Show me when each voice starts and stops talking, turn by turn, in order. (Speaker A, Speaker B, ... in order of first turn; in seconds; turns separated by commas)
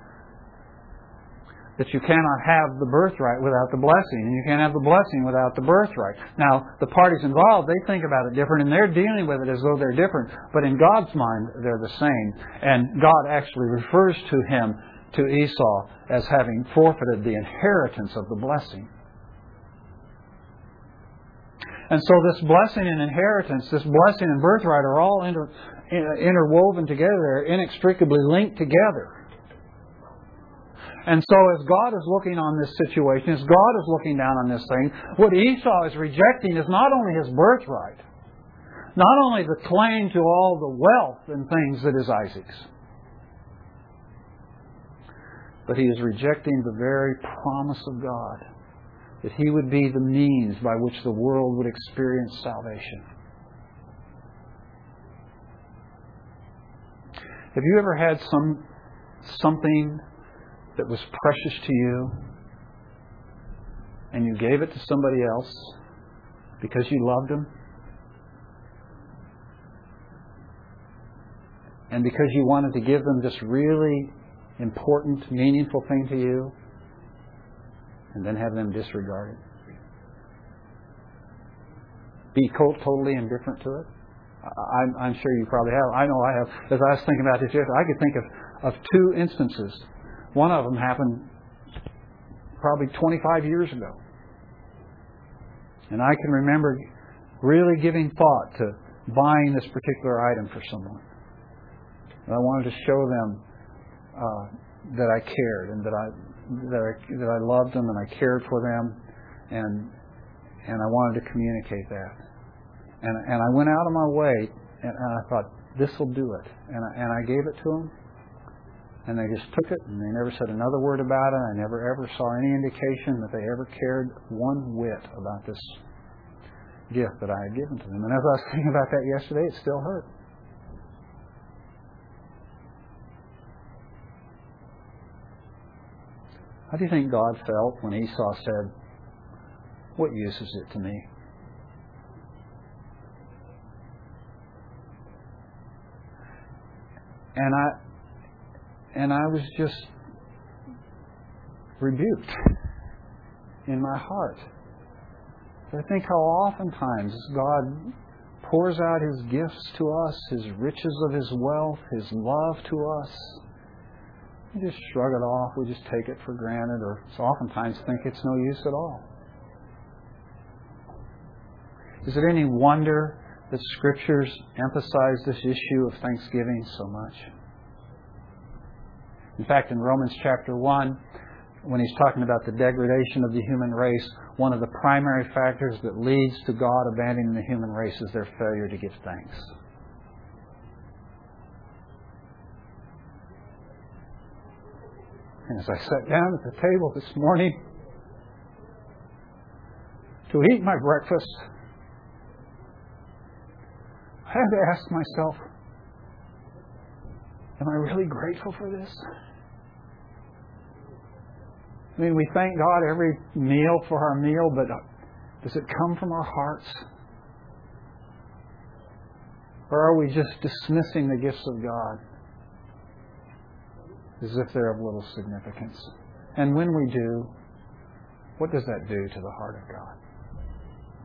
Speaker A: 1.8-18.9, Speaker A: 21.9-29.1, Speaker A: 31.1-38.0, Speaker A: 39.0-42.7, Speaker A: 45.7-48.4, Speaker A: 49.2-53.0, Speaker A: 57.5-58.6, Speaker A: 59.2-60.0, Speaker A: 60.8-62.2, Speaker A: 64.1-65.8, Speaker A: 66.6-67.5, Speaker A: 71.9-76.5, Speaker A: 78.1-79.4, Speaker A: 82.3-83.9, Speaker A: 84.4-91.3, Speaker A: 92.6-94.0, Speaker A: 95.9-96.8, Speaker A: 97.4-101.0, Speaker A: 102.3-103.4, Speaker A: 104.1-109.0, Speaker A: 109.5-109.9, Speaker A: 110.7-112.2, Speaker A: 113.0-117.9, Speaker A: 119.1-125.8, Speaker A: 126.9-130.1, Speaker A: 136.7-138.7, Speaker A: 140.0-141.1, Speaker A: 147.3-147.8, Speaker A: 148.9-149.9, Speaker A: 151.8-152.4, Speaker A: 153.7-154.5, Speaker A: 155.7-163.4, Speaker A: 164.5-169.1, Speaker A: 172.0-177.3, Speaker A: 179.4-181.0, Speaker A: 181.6-189.5, Speaker A: 195.5-197.6, Speaker A: 200.3-201.4, Speaker A: 204.3-205.4, Speaker A: 207.6-209.1, Speaker A: 212.0-214.8, Speaker A: 215.4-216.8, Speaker A: 219.7-222.0, Speaker A: 224.2-227.3, Speaker A: 228.4-230.0